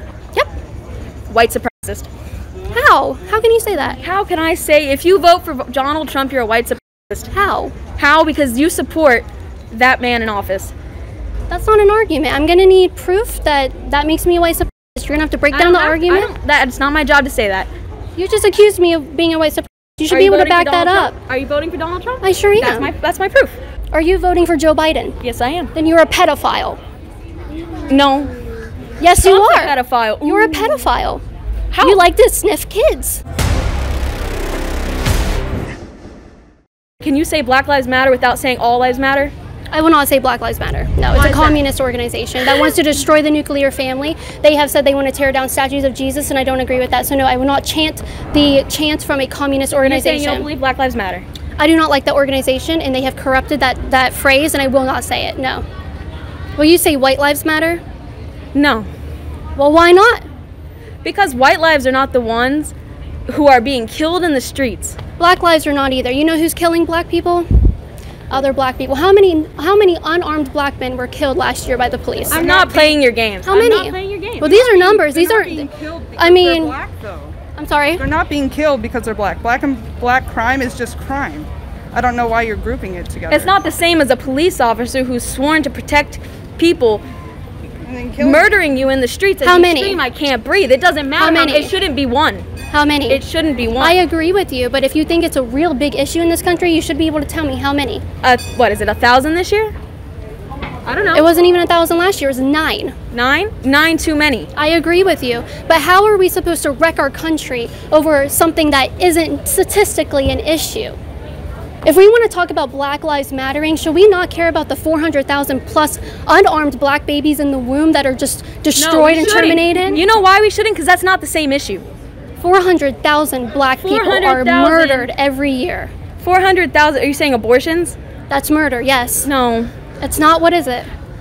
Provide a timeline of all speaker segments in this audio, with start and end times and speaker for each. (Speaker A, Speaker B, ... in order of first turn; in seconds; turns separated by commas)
Speaker A: 1.3-2.1, Speaker B: 2.7-4.0, Speaker A: 4.0-7.3, Speaker B: 7.3-7.8, Speaker A: 8.0-10.7, Speaker B: 11.5-16.3, Speaker A: 15.5-17.7, Speaker B: 18.2-21.2, Speaker A: 20.1-23.6, Speaker B: 22.2-22.9, Speaker B: 23.9-25.2, Speaker A: 25.2-25.7, Speaker B: 25.8-26.8, Speaker A: 27.9-28.3, Speaker B: 29.0-31.2, Speaker A: 29.2-30.8, Speaker A: 31.7-32.0, Speaker B: 31.8-33.2, Speaker A: 37.0-39.3, Speaker B: 39.7-50.5, Speaker A: 41.1-41.6, Speaker A: 49.8-51.2, Speaker B: 51.6-55.6, Speaker B: 56.6-57.8, Speaker A: 58.5-58.9, Speaker B: 59.5-60.2, Speaker A: 61.0-62.7, Speaker A: 63.3-65.0, Speaker B: 65.2-67.7, Speaker B: 68.3-72.8, Speaker A: 72.3-74.5, Speaker C: 72.5-72.9, Speaker B: 73.5-76.8, Speaker C: 74.5-77.3, Speaker B: 77.6-78.0, Speaker C: 78.0-83.6, Speaker A: 83.3-87.0, Speaker C: 87.8-88.5, Speaker A: 88.2-92.5, Speaker B: 89.4-90.0, Speaker B: 91.2-91.7, Speaker B: 92.7-93.2, Speaker A: 93.1-94.0, Speaker B: 93.8-98.0, Speaker A: 98.2-99.7, Speaker A: 100.9-101.3, Speaker B: 101.1-103.0, Speaker A: 103.1-104.5, Speaker B: 104.5-111.0, Speaker B: 111.8-120.0, Speaker A: 118.8-121.8, Speaker B: 122.4-125.9, Speaker A: 123.8-125.1, Speaker A: 126.2-128.0, Speaker B: 128.3-129.3, Speaker A: 129.2-129.7, Speaker B: 130.0-130.9